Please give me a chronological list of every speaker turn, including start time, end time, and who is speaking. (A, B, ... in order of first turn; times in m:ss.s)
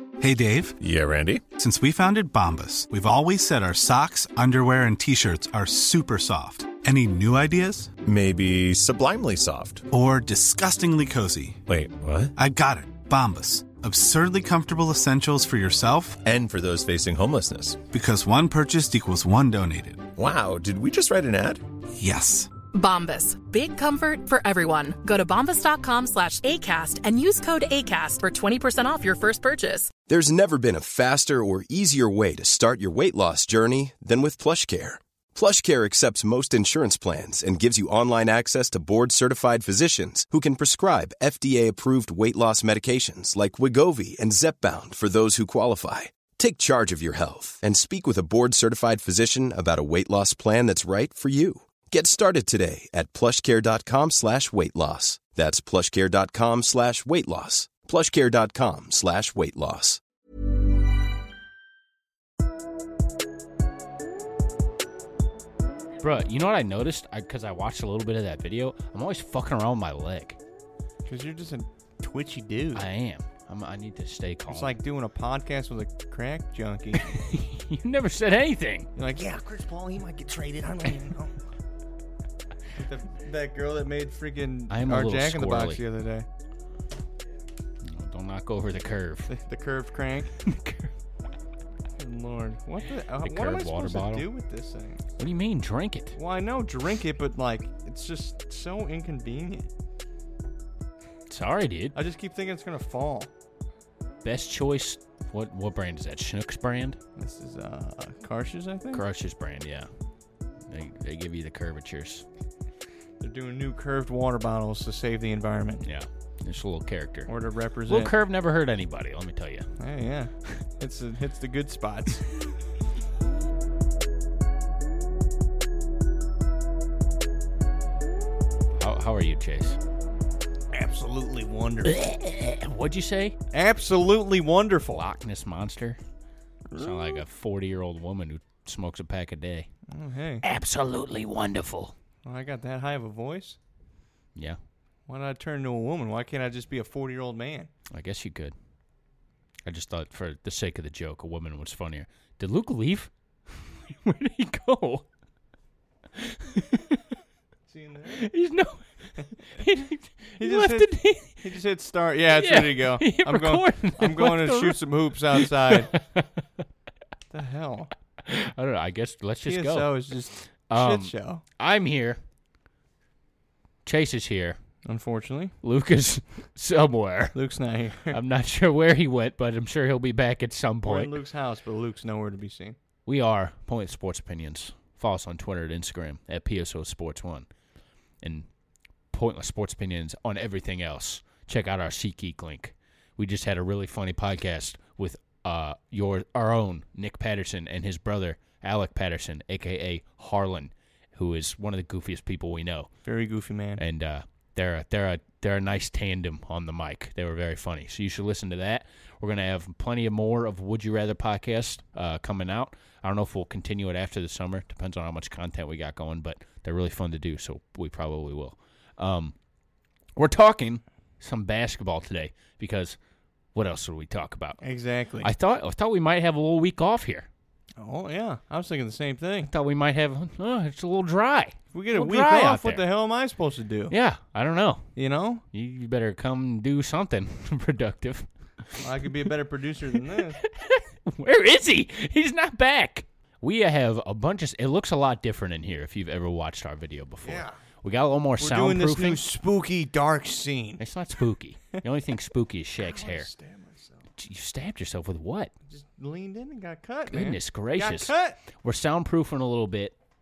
0:00.2-0:00.8 A
0:00.8-0:01.5 B
0:01.6-0:07.9 A
0:08.0-0:09.9 B
0:09.9-0:11.6 A
0:11.6-0:12.3 B
0:12.4-0:16.2 A
0:16.2-0:17.8 B
0:17.9-0:20.0 A
0:20.1-0:21.6 B
0:21.9-0:22.5 A
0:22.7-0:29.9 C
0:30.1-1:00.0 D
1:06.0-1:10.4 E
1:11.0-1:12.8 F
1:12.7-1:14.7 E
1:14.5-1:17.0 F
1:17.1-1:18.9 E
1:19.0-1:21.4 F
1:22.7-1:26.3 F
1:24.7-1:25.8 E
1:27.8-1:29.3 E
1:29.3-1:30.3 F
1:30.4-1:30.9 E
1:32.0-1:35.0 F
1:33.2-1:34.3 E
1:35.2-1:36.2 E
1:36.2-1:39.7 F
1:41.3-1:42.0 E
1:41.9-1:43.3 F
1:44.2-1:47.0 E
1:47.2-1:49.0 F
1:48.9-1:49.9 E
1:50.7-1:52.2 E
1:53.2-1:55.8 F
1:55.8-1:57.3 E
1:57.3-1:58.1 F
1:57.9-1:59.7 E
1:59.8-2:02.3 F
2:08.8-2:09.8 E
2:10.7-2:12.0 F
2:11.8-2:13.4 E
2:13.5-2:15.0 F
2:14.9-2:16.0 E
2:16.7-2:17.2 F
2:16.8-2:19.7 E
2:19.9-2:20.4 F
2:20.4-2:21.9 E
2:22.2-2:23.6 F
2:25.1-2:27.7 F
2:27.9-2:28.5 E
2:29.6-2:35.0 E
2:36.2-2:37.0 E
2:37.7-2:38.3 F
2:38.1-2:38.8 E
2:39.5-2:41.5 E
2:40.4-2:45.9 F
2:42.3-2:46.3 E
2:47.3-2:47.9 F
2:48.2-2:49.9 E
2:49.4-2:51.4 F
2:50.7-2:52.2 E
2:53.8-2:54.6 E
2:54.8-2:55.5 F
2:55.6-2:57.4 E
2:57.3-2:58.2 F
2:58.1-3:01.1 E
3:00.8-3:02.8 F
3:03.0-3:07.5 E
3:08.2-3:08.5 E
3:09.1-3:22.9 E
3:23.0-3:23.8 F
3:23.8-3:39.3 E
3:40.2-3:43.0 E
3:43.5-3:44.6 E
3:44.6-3:45.3 F
3:45.2-3:47.3 E
3:47.8-3:49.5 F
3:49.4-3:52.8 E
3:51.7-3:53.9 F
3:53.9-3:54.9 E
3:55.0-3:55.4 F
3:55.5-3:58.9 E
3:58.8-4:00.4 F
4:00.1-4:09.2 E
4:07.2-4:07.6 F
4:08.4-4:10.8 F
4:10.8-4:13.3 E
4:12.8-4:14.0 F
4:14.2-4:15.5 E
4:15.7-4:18.4 F
4:17.1-4:19.9 E